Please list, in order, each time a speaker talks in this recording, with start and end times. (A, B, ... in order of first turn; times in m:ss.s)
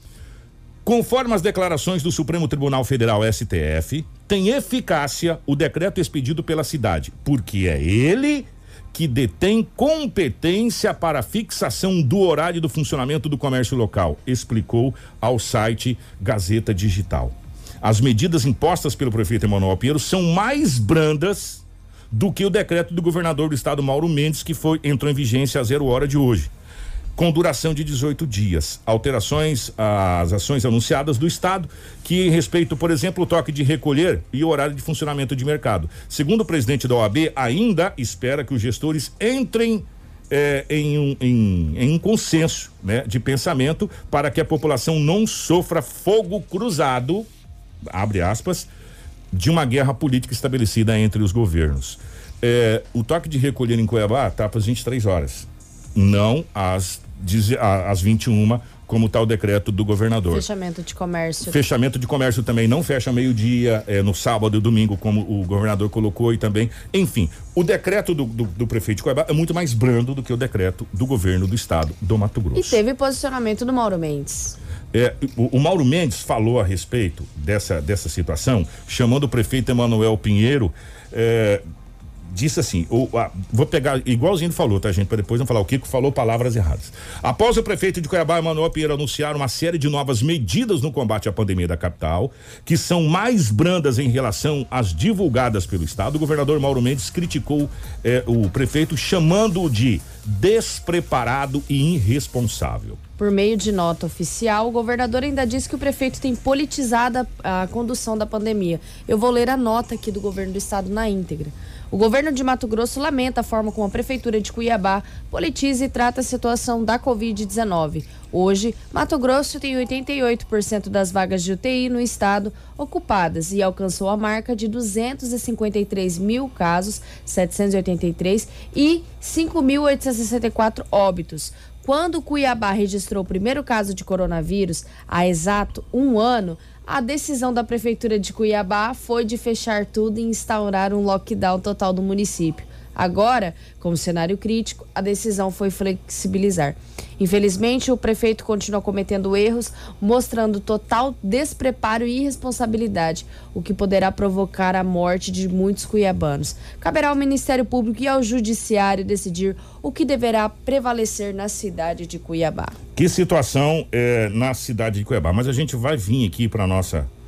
0:00.9-0:26.5 A
0:27.2-0:47.3 A
0:47.9-0:48.7 A
0:49.3-1:00.4 A
1:00.3-1:01.6 B
1:01.4-1:12.8 A
1:12.6-1:14.6 B
1:14.9-1:21.6 A
1:22.3-1:43.0 A
1:43.2-2:42.8 B
2:43.0-2:47.1 A